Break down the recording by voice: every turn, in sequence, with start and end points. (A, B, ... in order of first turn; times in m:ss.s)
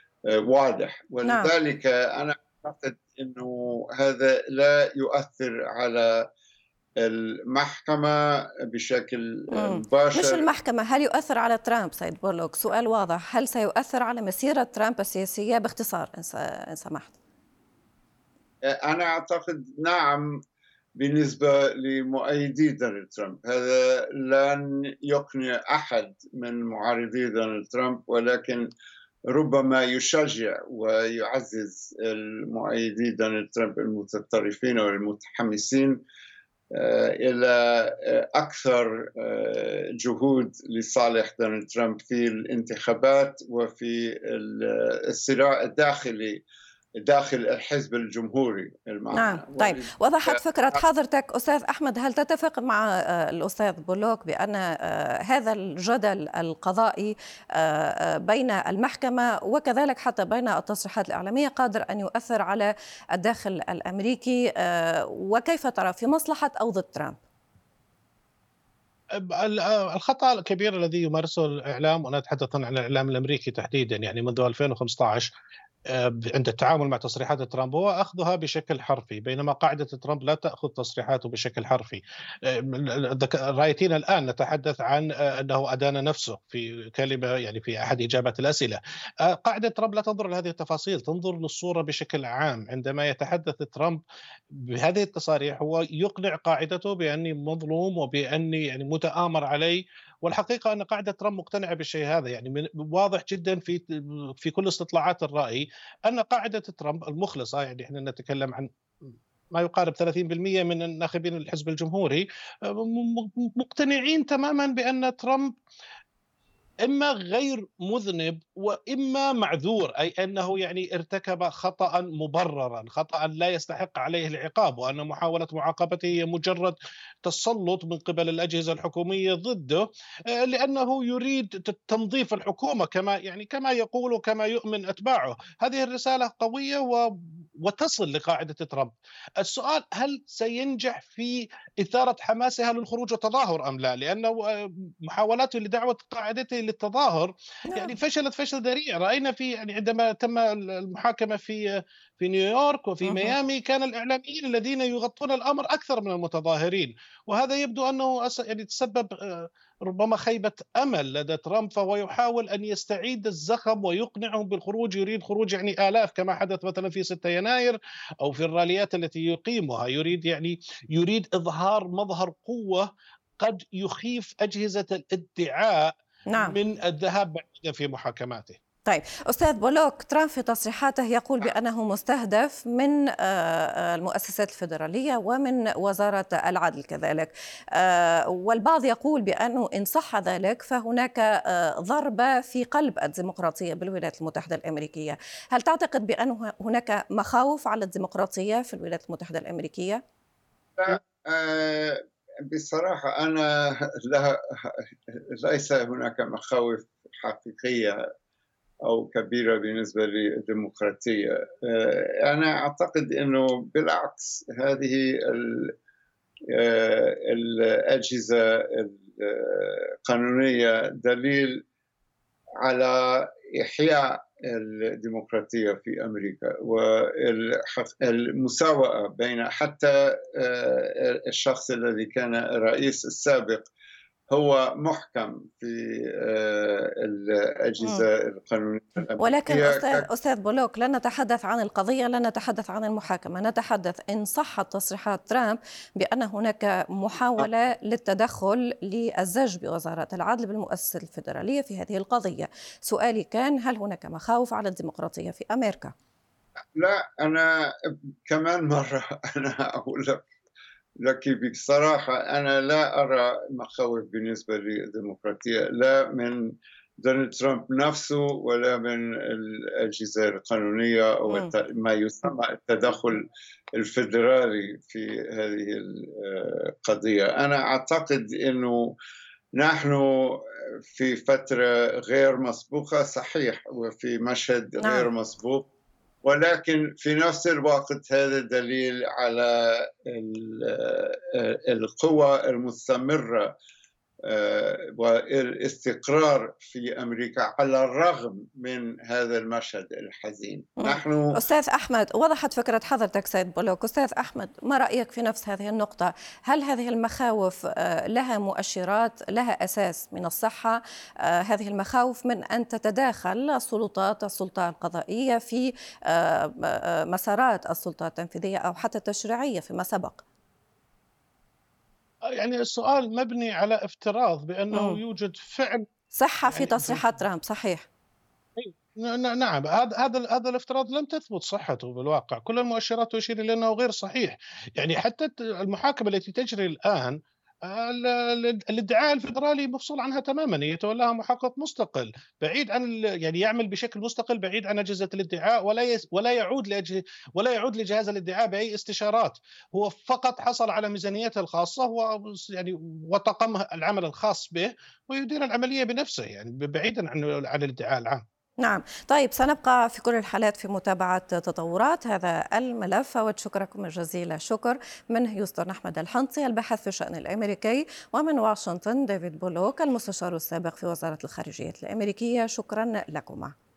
0:00.3-0:06.2 A
0:01.2-0:01.5 B
0:07.0-0:10.4 A
0:09.5-0:17.2 B
0:18.7-0:20.4 A
0:21.0-0:28.7 A
0:29.3-0:36.0 A
0:36.7-0:46.4 A
0:47.0-0:50.8 A
0:49.1-1:07.2 B
1:09.2-1:15.3 C
1:15.9-1:55.5 C
1:56.8-2:17.1 C
2:17.6-2:52.9 C
2:27.7-2:28.0 B
2:33.0-2:33.4 B
2:53.4-2:58.6 C
2:56.3-2:56.6 B
2:58.9-3:20.0 B
3:20.8-3:24.7 A
3:25.4-3:28.0 A
3:28.8-3:35.7 A
3:36.5-3:41.6 A
3:42.6-3:53.7 A
3:54.3-4:00.1 A
3:59.2-4:15.9 B
4:16.8-4:17.7 A
4:18.3-4:20.2 A
4:21.0-4:26.4 A
4:27.0-4:33.2 A
4:33.8-4:38.9 A
4:39.6-4:40.4 A
4:40.9-4:45.7 A
4:44.8-4:45.1 B
4:46.2-4:53.5 A
4:54.3-5:01.4 A
5:00.8-5:20.2 B
5:22.4-5:25.8 C
5:24.7-5:25.0 B
5:26.1-5:27.8 B
5:26.5-5:27.1 C
5:28.6-5:58.2 C
5:58.6-6:13.5 B